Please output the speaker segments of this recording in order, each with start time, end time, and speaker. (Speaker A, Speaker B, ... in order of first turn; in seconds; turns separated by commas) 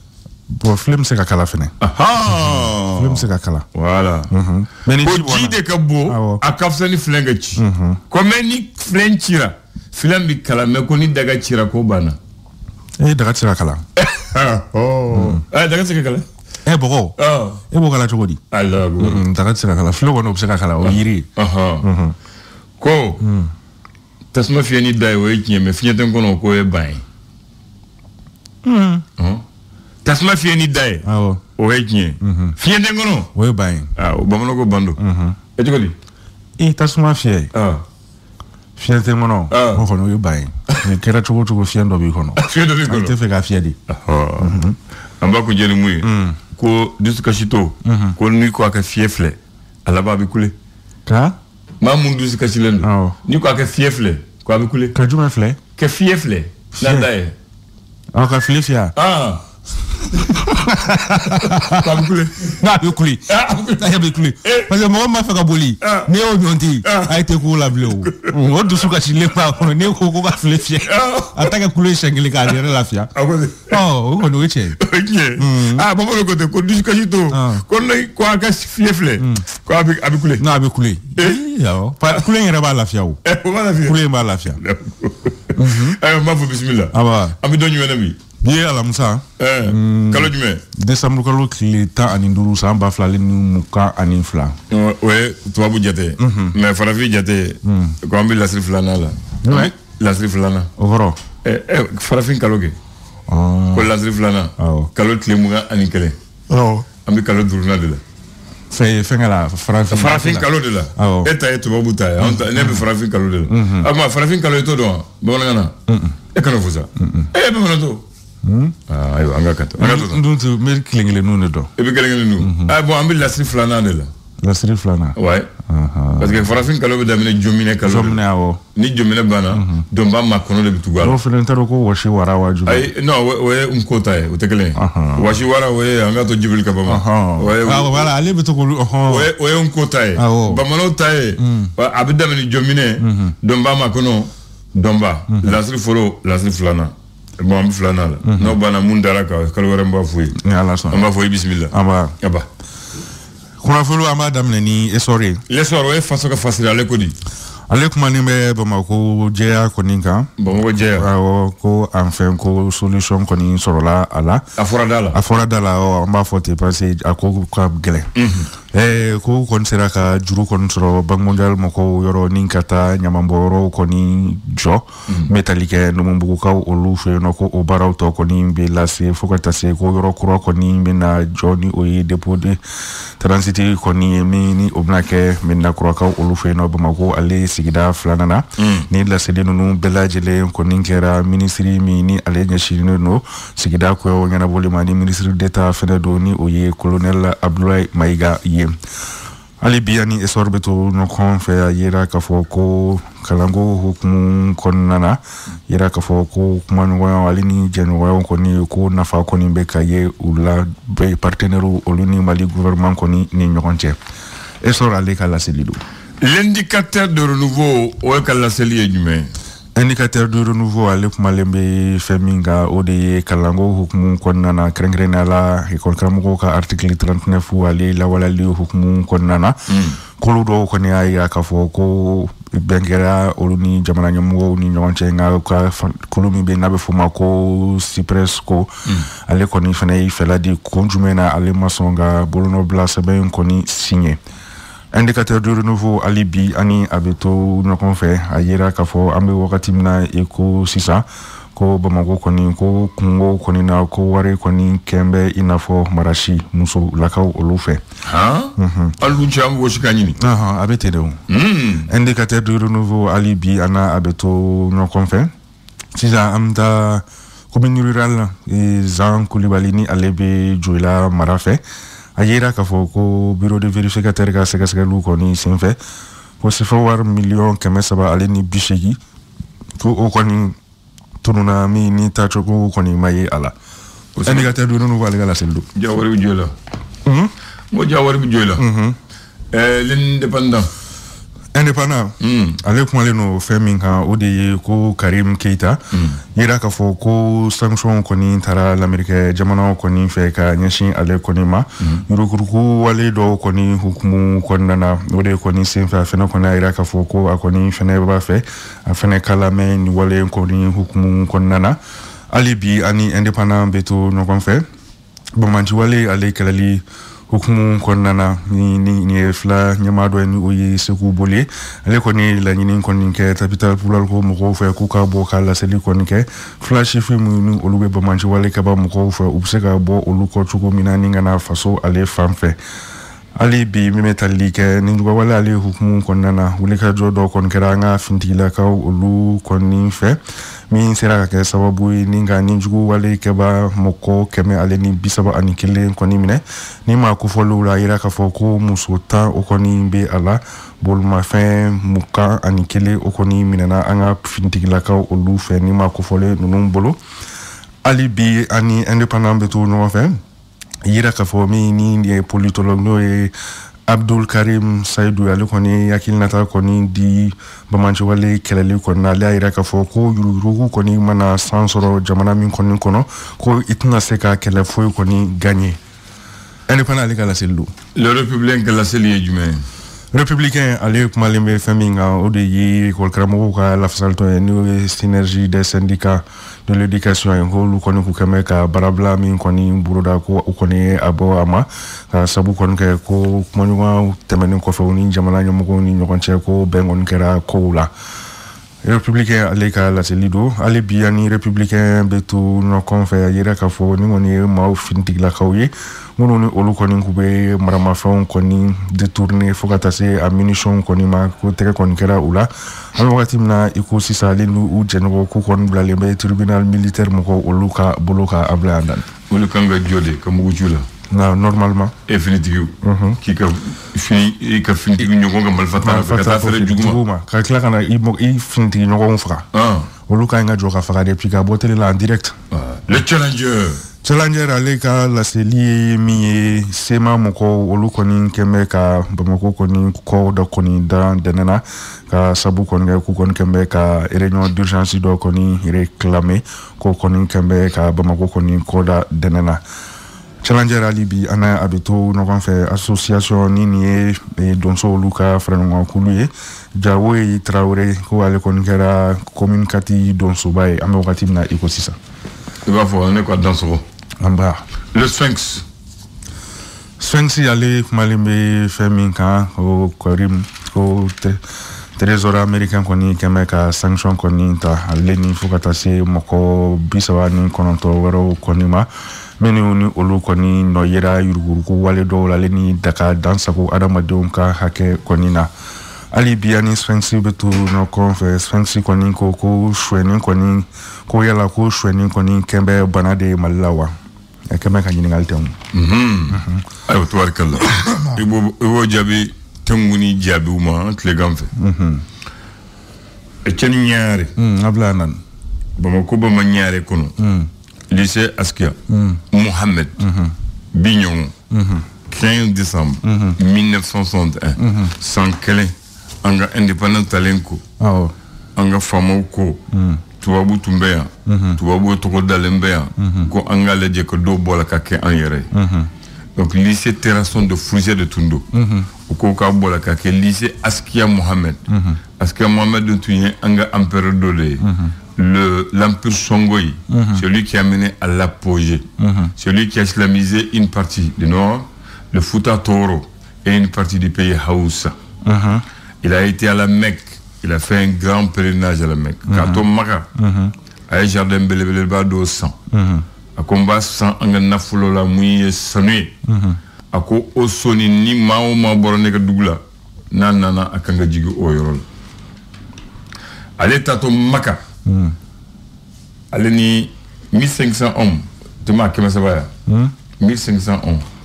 Speaker A: 0.5-1.7, Speaker B: 1.8-4.3, Speaker A: 2.5-3.6, Speaker A: 4.3-6.4, Speaker B: 5.0-12.2, Speaker A: 7.6-8.0, Speaker A: 13.0-13.8, Speaker B: 14.0-16.2, Speaker A: 15.1-15.4, Speaker A: 16.6-17.1, Speaker B: 17.2-17.6, Speaker A: 17.7-18.4, Speaker B: 18.5-19.2, Speaker A: 19.0-21.3, Speaker B: 20.8-21.8, Speaker A: 21.8-22.1, Speaker B: 22.8-23.2, Speaker A: 23.2-23.5, Speaker B: 24.3-27.0, Speaker A: 28.6-29.0, Speaker B: 29.2-29.4, Speaker B: 30.0-31.1, Speaker A: 31.0-31.4, Speaker B: 31.6-33.3, Speaker A: 32.2-32.5, Speaker A: 33.3-33.9, Speaker B: 34.0-35.0, Speaker A: 35.0-35.4, Speaker B: 35.5-35.9, Speaker A: 36.6-37.5, Speaker B: 37.5-37.8, Speaker A: 38.8-43.8, Speaker B: 39.5-39.9, Speaker B: 42.4-43.1, Speaker B: 43.9-44.6, Speaker A: 44.4-44.8, Speaker B: 45.2-50.5, Speaker A: 46.0-46.4, Speaker A: 47.8-48.1, Speaker A: 51.0-51.4, Speaker B: 51.8-54.9, Speaker A: 52.8-53.1, Speaker A: 54.9-55.6, Speaker B: 55.8-57.3, Speaker A: 56.8-57.1, Speaker A: 58.1-58.9, Speaker B: 59.0-59.4, Speaker A: 60.1-62.0, Speaker B: 61.1-62.6, Speaker A: 62.6-73.1, Speaker B: 63.3-64.7, Speaker B: 65.8-66.1, Speaker B: 66.8-67.2, Speaker B: 67.7-68.4, Speaker B: 70.8-71.5, Speaker B: 73.1-73.8, Speaker A: 73.7-74.8, Speaker B: 74.8-80.4, Speaker A: 75.4-75.8, Speaker A: 77.3-77.6, Speaker A: 79.2-79.4, Speaker A: 80.4-83.2, Speaker B: 83.2-84.0, Speaker A: 83.8-84.6, Speaker B: 84.5-88.2, Speaker A: 85.5-86.0, Speaker A: 86.9-87.4, Speaker A: 88.4-94.5, Speaker B: 89.4-90.6, Speaker B: 94.7-100.7, Speaker A: 96.2-96.6, Speaker A: 97.6-98.0, Speaker A: 99.4-99.7, Speaker A: 100.8-101.2, Speaker B: 101.4-102.8, Speaker A: 103.3-103.9, Speaker B: 103.7-106.2, Speaker A: 104.6-104.9, Speaker A: 106.5-106.8, Speaker B: 107.0-108.0, Speaker A: 108.7-111.3, Speaker B: 109.9-115.7, Speaker A: 112.2-112.8, Speaker A: 113.5-113.9, Speaker A: 115.9-116.2, Speaker B: 116.3-118.0, Speaker A: 117.0-117.3, Speaker A: 118.4-118.7, Speaker B: 118.9-120.2, Speaker A: 119.8-121.7, Speaker B: 121.8-124.1, Speaker A: 122.4-122.7, Speaker A: 124.4-126.5, Speaker B: 125.2-125.5, Speaker B: 126.2-128.2, Speaker A: 127.8-128.6, Speaker B: 128.7-131.2, Speaker A: 129.5-129.8, Speaker A: 131.0-132.9, Speaker B: 132.7-138.1, Speaker A: 134.7-135.3, Speaker A: 136.8-139.3, Speaker B: 139.1-150.4, Speaker A: 140.2-140.6, Speaker A: 141.4-141.7, Speaker A: 143.0-143.3, Speaker A: 145.3-145.6, Speaker A: 148.2-148.6, Speaker A: 150.4-151.1, Speaker B: 150.9-152.4, Speaker A: 151.7-152.1, Speaker A: 153.6-155.4, Speaker B: 155.5-157.1, Speaker A: 157.7-160.3, Speaker B: 160.4-161.1, Speaker A: 160.8-164.4, Speaker B: 164.6-165.2, Speaker A: 165.1-168.1, Speaker B: 168.2-168.5, Speaker A: 168.7-182.6, Speaker A: 183.2-198.8, Speaker B: 188.6-188.9, Speaker A: 199.6-214.0, Speaker A: 214.6-215.8, Speaker B: 216.2-219.3, Speaker A: 219.8-238.7, Speaker B: 229.7-230.0, Speaker A: 239.2-244.2, Speaker A: 244.9-257.8, Speaker B: 258.1-260.2, Speaker A: 258.6-258.9, Speaker A: 260.2-261.2, Speaker B: 261.3-261.9, Speaker A: 261.9-265.3, Speaker A: 265.9-271.6, Speaker A: 272.2-275.8, Speaker A: 276.4-279.0, Speaker A: 279.8-280.6, Speaker A: 281.2-283.5, Speaker B: 284.1-284.5, Speaker A: 284.2-285.7, Speaker B: 285.7-286.5, Speaker A: 287.1-287.3, Speaker B: 287.7-288.6, Speaker A: 288.6-289.0, Speaker B: 289.5-290.7, Speaker A: 291.5-295.8, Speaker B: 292.2-292.6, Speaker B: 295.9-296.2, Speaker A: 296.3-311.8, Speaker A: 312.3-314.6, Speaker A: 315.4-332.6, Speaker A: 333.4-340.2, Speaker A: 340.7-357.0, Speaker A: 357.8-360.2, Speaker A: 360.8-363.3, Speaker A: 363.9-375.8, Speaker A: 376.7-377.7, Speaker B: 377.9-379.6, Speaker A: 380.1-397.9, Speaker A: 398.8-419.1, Speaker B: 419.3-420.9, Speaker A: 421.1-421.9, Speaker B: 422.1-427.0, Speaker A: 422.8-423.2, Speaker A: 425.8-429.4, Speaker B: 429.5-429.9, Speaker A: 430.1-432.3, Speaker B: 432.5-433.8, Speaker A: 434.0-449.6, Speaker A: 450.4-461.9, Speaker B: 462.6-463.8, Speaker A: 464.2-464.6, Speaker B: 464.9-465.6, Speaker A: 467.0-471.4, Speaker A: 472.0-485.5, Speaker A: 486.1-493.9, Speaker A: 494.5-495.6, Speaker B: 495.7-501.5, Speaker A: 496.3-496.6, Speaker A: 501.6-502.0, Speaker B: 503.4-504.3, Speaker A: 504.4-505.2, Speaker B: 505.8-507.1, Speaker A: 507.2-507.5, Speaker B: 507.9-508.8, Speaker A: 508.9-509.2, Speaker B: 509.3-509.9, Speaker A: 510.0-510.3, Speaker B: 510.7-511.3, Speaker A: 511.5-511.9, Speaker B: 512.1-517.6, Speaker A: 513.0-513.4, Speaker A: 514.6-514.9, Speaker A: 517.8-518.1, Speaker B: 518.5-519.6, Speaker A: 519.7-520.0, Speaker B: 520.2-525.5, Speaker A: 521.2-521.6, Speaker A: 523.0-523.3, Speaker A: 525.5-525.9, Speaker B: 526.4-528.5, Speaker A: 528.5-528.9, Speaker B: 529.1-531.6, Speaker A: 531.7-532.0, Speaker B: 532.2-534.6, Speaker A: 534.6-534.9, Speaker B: 535.1-538.9, Speaker A: 536.9-537.2, Speaker A: 539.0-539.3, Speaker B: 539.4-544.9, Speaker A: 545.2-545.6, Speaker B: 546.0-550.1, Speaker A: 549.3-550.5, Speaker B: 550.9-552.5, Speaker A: 552.7-553.0, Speaker B: 553.3-556.1, Speaker A: 556.2-556.6, Speaker B: 556.9-561.8, Speaker B: 563.6-564.6, Speaker A: 564.8-565.1, Speaker B: 566.3-569.5, Speaker A: 569.7-569.9, Speaker B: 570.2-571.0